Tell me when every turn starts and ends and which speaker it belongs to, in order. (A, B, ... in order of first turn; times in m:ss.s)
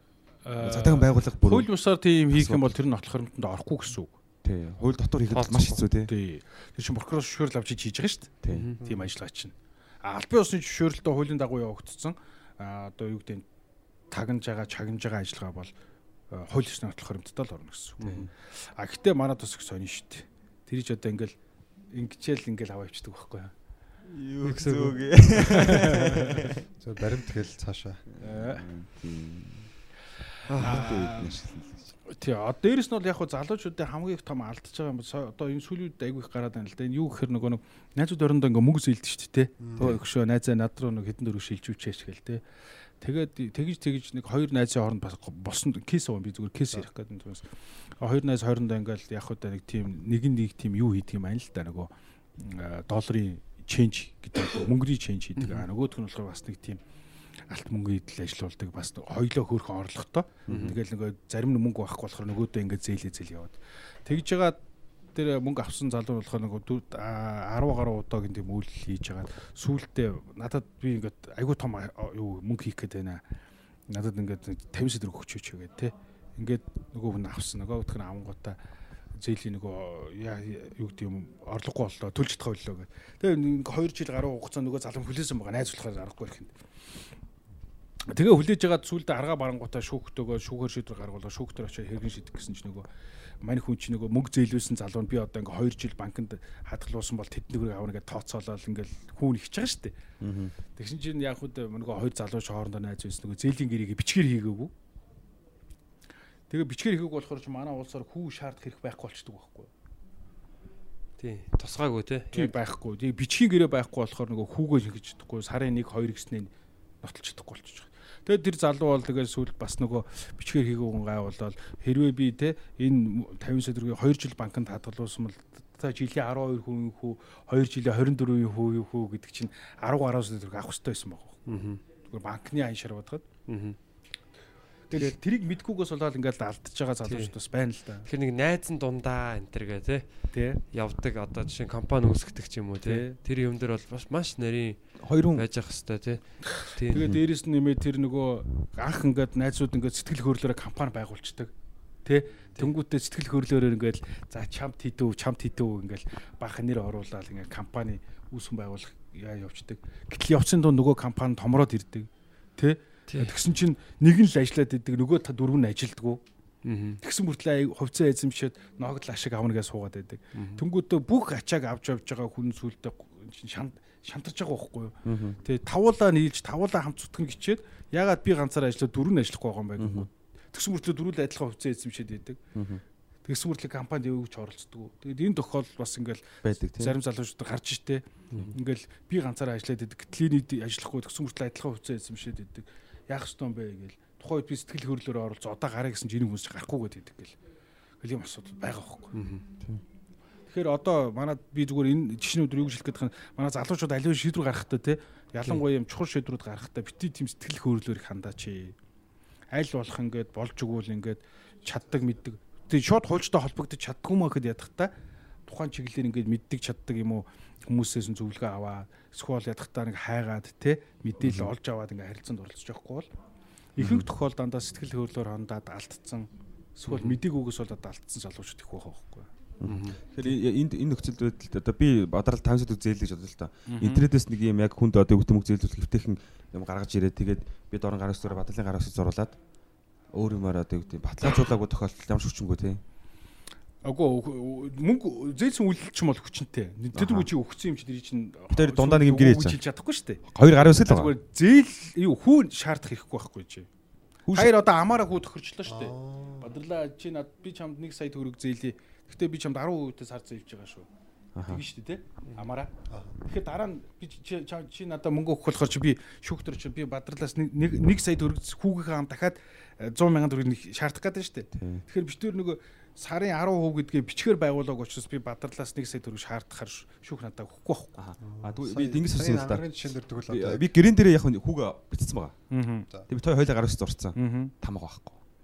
0:00.4-0:04.1 A
0:00.6-0:01.7 B
0:02.3-0:02.7 B
0:04.4-0:06.1 B
0:05.3-0:05.8 C
0:06.1-0:13.4 A
0:08.4-0:08.7 B
0:08.5-0:08.8 C
0:08.8-0:09.1 D
0:14.1-0:15.7 A
0:16.3-0:21.3 A
0:18.0-0:18.3 C
0:21.9-0:23.5 A
0:24.0-0:26.6 B
0:24.4-0:26.1 C
0:26.8-0:28.0 D
0:28.1-0:29.7 B
0:28.2-0:28.6 A
0:30.4-0:30.9 C
0:30.6-0:31.9 B
0:30.6-0:31.4 A
0:32.1-0:42.4 A
0:39.6-0:40.0 D
0:43.0-0:47.4 A
0:48.0-0:56.8 A
0:55.4-0:55.6 C
0:57.5-1:04.6 A
1:00.5-1:00.8 C
1:00.5-1:00.8 B
1:05.1-1:13.2 A
1:13.9-1:18.6 A
1:19.2-1:26.5 A
1:28.1-1:32.9 A
1:33.4-1:40.0 A
1:40.2-1:40.5 B
1:40.8-1:44.7 A
1:46.5-1:49.7 A
1:51.2-1:52.5 C
1:52.3-1:56.5 A
1:57.0-2:11.4 A
2:11.5-2:11.8 C
2:12.1-2:13.2 A
2:13.5-2:13.8 C
2:14.9-2:18.1 A
2:17.0-2:17.3 C
2:18.0-2:20.1 C
2:20.3-2:20.6 A
2:20.7-2:27.1 C
2:22.8-2:23.1 A
2:25.0-2:25.4 B
2:26.9-2:27.2 B
2:26.9-2:31.5 A
2:32.0-2:46.2 A
2:46.6-2:47.0 C
2:47.0-3:02.4 A
2:50.3-2:50.6 C
2:55.0-2:55.4 B
2:59.8-3:00.1 B
3:02.5-3:02.8 B
3:03.2-3:17.3 A
3:06.4-3:07.0 B
3:18.0-3:19.1 A
3:19.1-3:19.4 C
3:20.5-3:28.8 A
3:29.5-3:34.9 A
3:35.5-3:43.1 A
3:41.2-3:41.5 B
3:43.8-3:49.3 A
3:43.8-3:44.1 B
3:46.9-3:47.2 C
3:49.6-3:59.4 B
3:49.6-3:50.0 C
3:53.7-3:54.1 A
4:00.1-4:02.8 B
4:03.8-4:13.7 A
4:06.9-4:07.3 B
4:08.5-4:09.6 B
4:10.3-4:11.1 B
4:14.3-4:14.5 B
4:14.3-4:20.9 A
4:15.6-4:16.5 D
4:21.3-4:21.6 B
4:21.4-4:22.7 A
4:22.9-4:23.2 D
4:23.3-4:38.0 A
4:31.6-4:31.8 B
4:38.0-4:39.7 B
4:38.2-4:40.7 D
4:40.3-4:42.4 B
4:42.5-4:42.9 A
4:43.1-4:45.2 B
4:44.2-4:44.5 A